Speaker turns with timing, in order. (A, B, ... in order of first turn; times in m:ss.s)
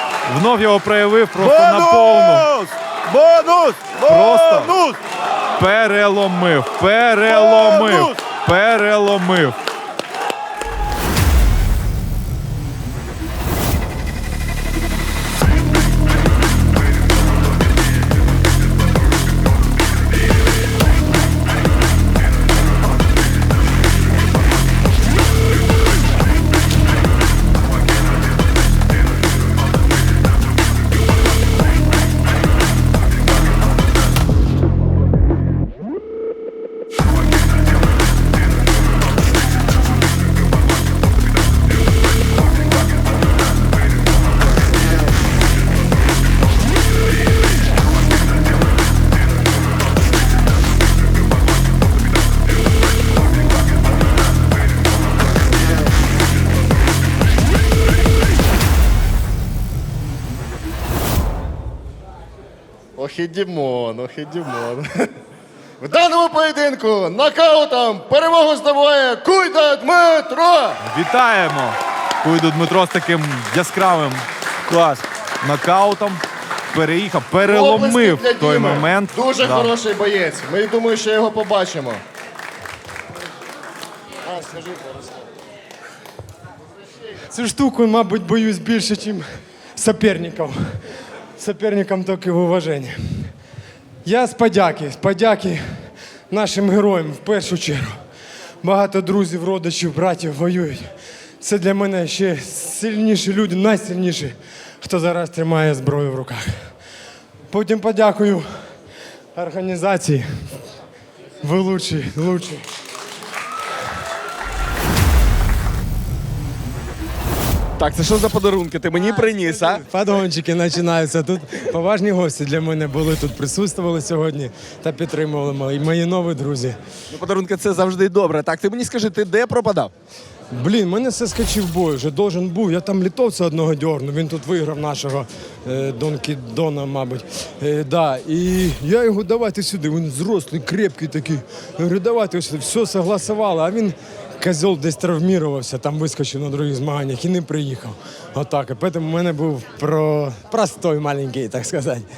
0:00.3-0:02.5 A
0:01.4-0:05.0 B
0:04.0-0:04.7 A
0:05.5-0:09.6 A
0:07.2-0:08.2 B
1:03.0-1:04.8 C
1:05.8-1:10.7 C
1:10.8-1:14.2 A
1:14.7-1:15.0 B
1:15.4-1:16.2 A
1:16.7-1:19.7 A
1:17.5-1:22.0 C
1:24.3-1:24.9 C
1:27.3-1:30.8 D
1:31.4-1:33.3 D
1:34.0-1:35.6 D
1:36.3-1:38.0 D
1:38.6-1:40.9 D
1:41.4-1:46.5 D
1:47.5-1:48.4 D
1:49.3-1:50.5 D
1:51.4-1:52.6 D
1:57.8-1:59.8 E
1:59.9-2:06.8 D
2:07.1-2:09.9 E
2:10.5-2:32.1 D